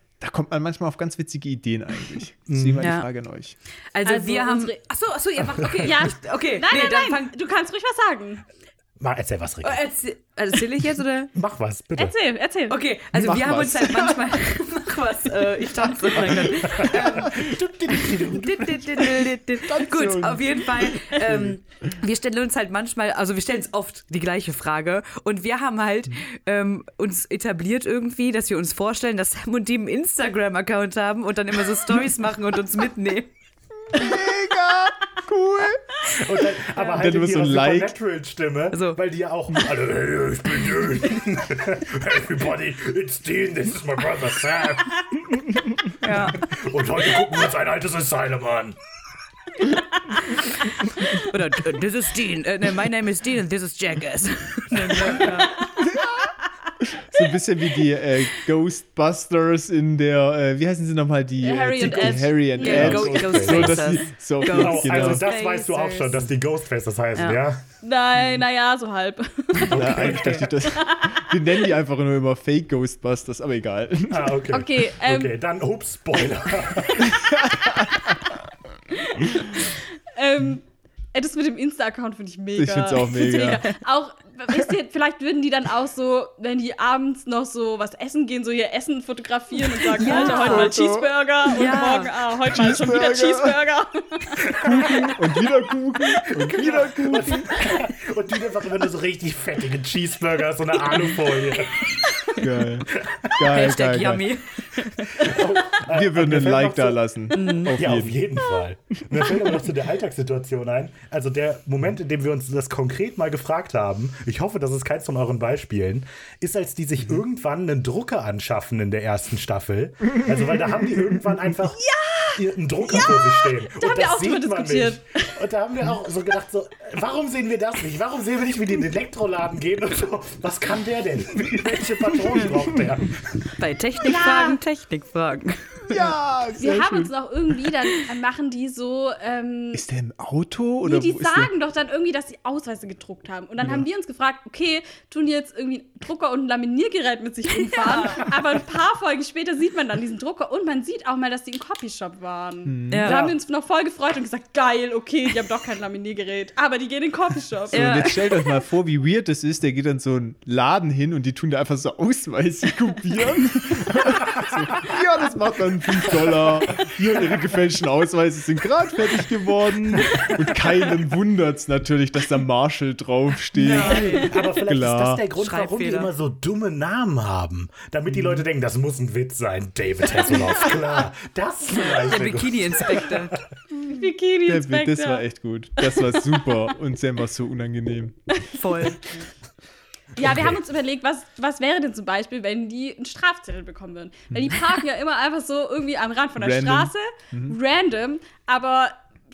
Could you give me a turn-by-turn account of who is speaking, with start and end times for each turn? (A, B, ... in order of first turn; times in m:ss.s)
0:00.2-0:03.6 A
0:02.5-0:02.9 B
0:02.8-0:03.1 C
0:03.9-0:07.3 C
0:04.1-0:04.8 D
0:05.8-0:08.4 D
0:09.0-0:09.8 B
0:09.6-0:11.3 C
0:11.3-0:12.1 B
0:12.0-0:12.8 D
0:12.7-0:17.5 C
0:13.1-0:14.3 A
0:16.2-0:18.3 A
0:16.7-0:18.7 B
0:18.3-0:33.3 C
0:19.0-0:21.6 A
0:33.9-0:36.2 A
0:36.1-0:45.4 B
0:37.0-0:37.9 A
0:38.7-0:39.0 C
0:46.0-0:46.4 C
0:46.0-0:48.8 B
0:51.1-0:55.7 C
0:55.8-0:56.3 A
0:56.8-1:05.3 A
1:01.4-1:03.1 D
1:02.6-1:06.2 C
1:02.7-1:07.6 B
1:07.8-1:11.6 D
1:09.6-1:10.5 B
1:09.7-1:14.5 A
1:14.1-1:17.1 B
1:14.5-1:15.3 D
1:17.0-1:18.2 A
1:18.9-1:35.2 D
1:22.6-1:23.6 A
1:29.9-1:30.7 C
1:30.0-1:31.1 A
1:31.5-1:32.1 C
1:32.4-1:33.6 A
1:34.5-1:34.9 B
1:34.6-1:37.5 A
1:36.3-1:42.0 B
1:42.4-1:44.3 A
1:43.4-1:45.3 C
1:45.1-1:47.0 B
1:45.8-1:48.2 A
1:47.3-1:47.7 C
1:47.7-2:13.5 B
2:01.8-2:05.4 D
2:13.6-2:16.1 C
2:14.0-2:14.6 D
2:15.9-2:17.1 A
2:16.6-2:19.8 D
2:19.7-2:21.5 A
2:20.8-2:38.4 D
2:23.6-2:23.9 A
2:27.7-2:28.3 C
2:32.7-2:33.4 A
2:32.9-2:33.3 C
2:37.7-2:55.2 A
2:37.7-2:38.1 C
2:53.6-2:54.4 C
2:54.1-3:03.2 B
2:55.4-2:56.1 C
2:58.1-2:58.4 A
3:01.7-3:03.4 C
3:03.7-3:05.2 D
3:04.4-3:08.2 A
3:05.8-3:06.4 D
3:08.5-3:09.0 C
3:10.2-3:19.0 D
3:10.2-3:10.6 A
3:16.4-3:17.6 A